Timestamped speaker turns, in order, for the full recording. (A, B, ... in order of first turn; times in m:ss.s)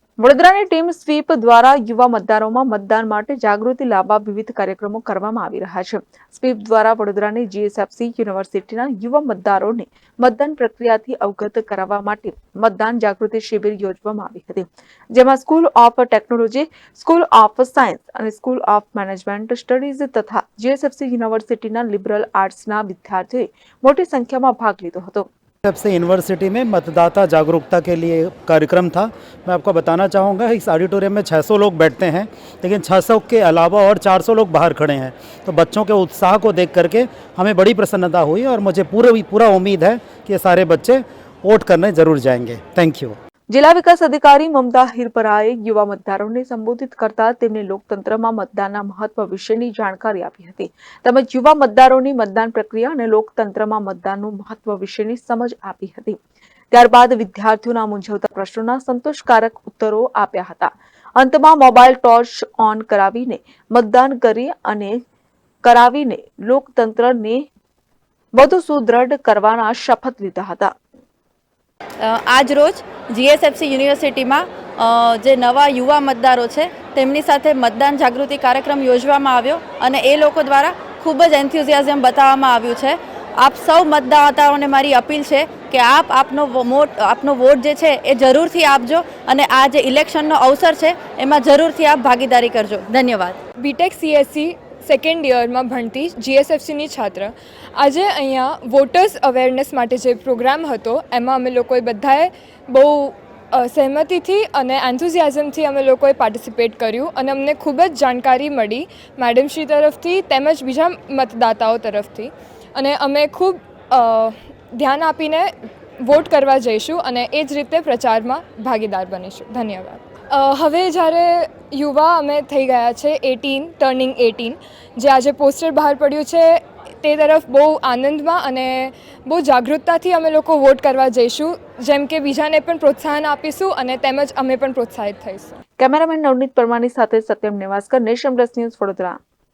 0:00.2-0:25.3 A
0:25.6-0:43.2 B
0:43.5-0:56.2 A
0:56.7-1:05.0 A
1:05.6-1:07.5 A
1:08.3-1:10.7 A
1:12.0-1:33.4 C
1:33.6-2:15.6 D
2:15.8-2:19.2 A